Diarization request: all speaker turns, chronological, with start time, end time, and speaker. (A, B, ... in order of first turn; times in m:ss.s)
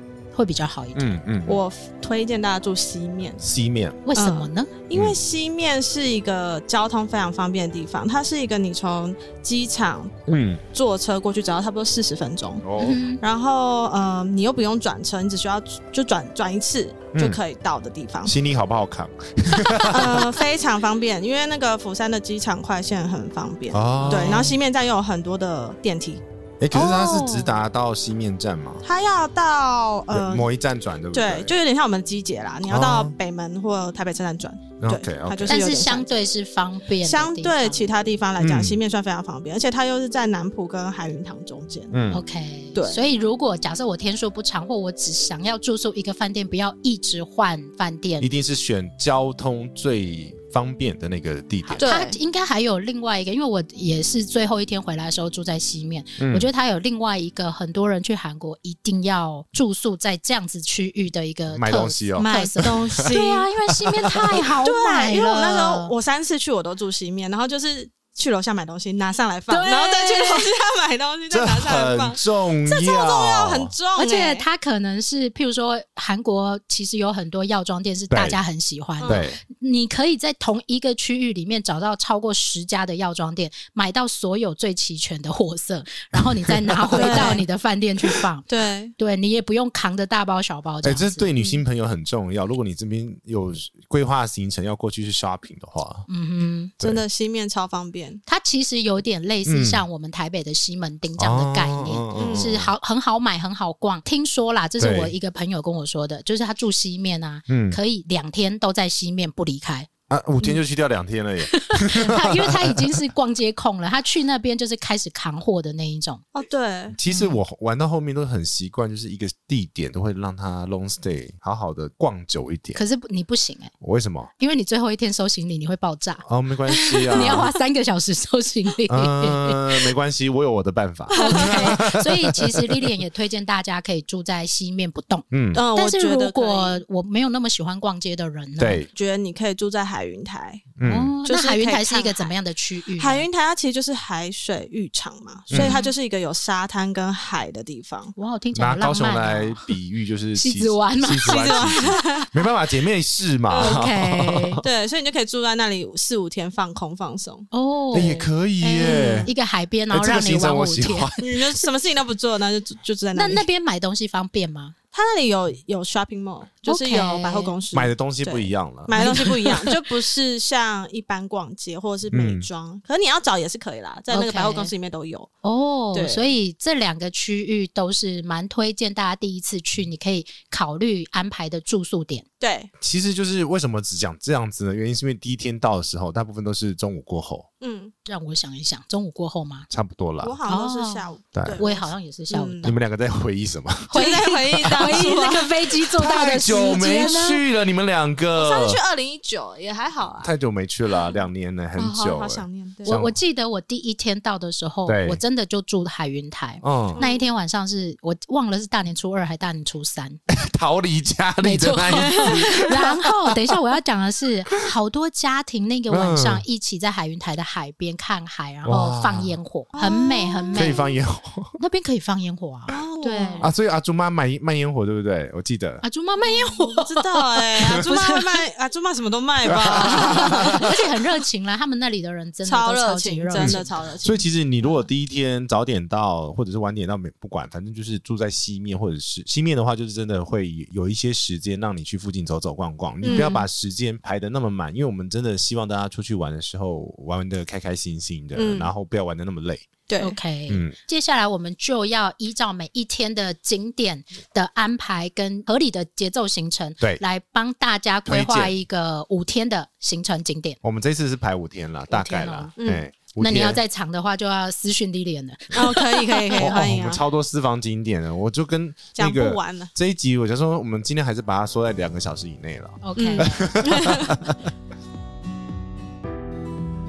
0:00.3-0:01.2 A
0:00.9-0:01.6 B
0:01.4-0:03.4 C
0:03.4-0:04.0 B
0:04.0-0:04.7 A
0:04.2-0:10.1 C
0:10.3-0:10.6 B
0:10.7-0:12.6 C
0:12.6-0:13.0 B
0:12.8-0:13.2 A
0:13.2-0:18.3 C
0:17.1-0:17.4 B
0:18.2-0:20.3 B
0:19.8-0:27.5 C
0:23.7-0:24.6 B
0:24.2-0:24.5 A
0:26.6-0:28.8 B
0:28.8-0:30.5 C
0:30.1-0:31.5 B
0:31.1-0:36.1 C
0:32.7-0:33.1 B
0:34.8-0:35.7 B
0:35.5-0:37.9 A
0:37.0-0:41.9 C
0:38.4-0:38.8 B
0:41.9-0:42.2 B
0:42.1-0:48.3 A
0:42.7-0:43.0 C
0:48.2-0:51.9 B
0:51.6-1:05.9 A
0:51.8-0:52.2 C
0:56.2-0:56.5 B
1:01.5-1:03.1 B
1:02.2-1:03.5 C
1:03.7-1:04.5 B
1:04.3-1:14.4 C
1:09.5-1:10.5 A
1:11.3-1:13.7 B
1:14.0-1:28.4 A
1:18.1-1:18.4 B
1:19.0-1:19.3 C
1:19.0-1:19.4 B
1:26.1-1:27.4 B
1:26.9-1:27.4 C
1:28.5-1:28.9 C
1:29.0-1:31.3 A
1:30.8-1:36.0 B
1:36.1-1:36.7 A
1:36.8-1:38.2 C
1:38.3-1:49.9 A
1:39.4-1:39.8 B
1:41.2-1:42.7 B
1:42.1-1:42.5 C
1:44.8-1:45.1 B
1:47.5-1:47.8 B
1:50.1-1:53.0 B
1:51.5-1:56.2 A
1:56.3-1:57.0 C
1:56.9-2:02.8 B
1:57.1-1:57.4 A
2:02.7-2:03.7 A
2:03.8-2:04.3 B
2:04.4-2:06.2 A
2:06.2-2:07.5 B
2:06.8-2:07.5 C
2:07.1-2:09.9 A
2:08.9-2:12.9 B
2:11.1-2:11.8 C
2:11.1-2:18.8 A
2:15.3-2:15.6 B
2:15.5-2:16.8 C
2:18.6-2:18.9 B
2:18.9-2:20.6 C
2:20.8-2:21.1 B
2:20.8-2:23.2 A
2:21.2-2:22.3 C
2:23.0-2:28.1 C
2:25.5-2:25.8 B
2:25.5-2:25.9 A
2:28.2-2:29.7 A
2:28.5-2:34.6 B
2:30.4-2:32.0 A
2:31.2-2:32.3 C
2:33.5-2:33.8 C
2:33.6-2:34.6 A
2:34.6-2:37.5 C
2:37.5-2:41.2 A
2:37.9-2:39.3 B
2:38.8-2:39.3 C
2:39.9-2:41.2 B
2:41.2-2:43.4 C
2:43.1-2:44.7 A
2:44.9-2:55.3 C
2:46.6-2:47.6 A
2:47.7-2:49.2 B
2:48.9-2:49.7 A
2:52.1-2:52.5 B
2:54.1-2:54.7 A
2:55.4-3:02.2 A
2:55.9-2:56.3 C
3:02.4-3:02.7 C
3:02.8-3:07.5 B
3:07.6-3:07.9 C
3:08.0-3:09.7 A
3:09.7-3:10.3 B
3:10.2-3:12.7 C
3:10.5-3:12.8 A
3:11.3-3:11.6 B
3:12.6-3:14.1 B
3:13.9-3:15.5 C
3:13.9-3:17.4 A
3:14.6-3:15.1 B
3:16.0-3:18.8 B
3:18.3-3:20.3 C
3:20.2-3:23.2 B
3:21.8-3:23.0 C
3:22.8-3:30.2 A
3:24.8-3:25.2 B
3:26.6-3:27.0 B
3:26.9-3:27.2 C
3:30.3-3:33.6 B
3:31.4-3:40.9 A
3:32.0-3:32.7 C
3:35.9-3:36.4 B
3:38.6-3:39.4 B
3:39.7-3:40.8 C
3:40.5-3:41.6 B
3:41.6-3:43.5 A
3:42.7-3:43.5 C
3:43.4-3:45.8 B
3:45.8-3:48.4 A
3:46.2-3:50.7 C
3:49.5-3:50.8 B
3:49.8-3:53.8 A
3:52.4-3:54.2 C
3:53.3-4:09.7 B
4:03.0-4:03.4 C
4:03.1-4:03.4 A
4:08.4-4:08.7 C
4:09.9-4:10.2 C
4:10.0-4:20.6 A
4:10.5-4:10.7 B
4:18.1-4:18.5 B
4:20.6-4:23.6 B
4:21.9-4:22.5 A
4:22.6-4:22.8 C
4:23.2-4:26.9 A
4:25.5-4:27.0 C
4:26.4-4:34.4 B
4:29.0-4:29.7 C
4:32.8-4:33.5 A
4:33.0-4:34.2 C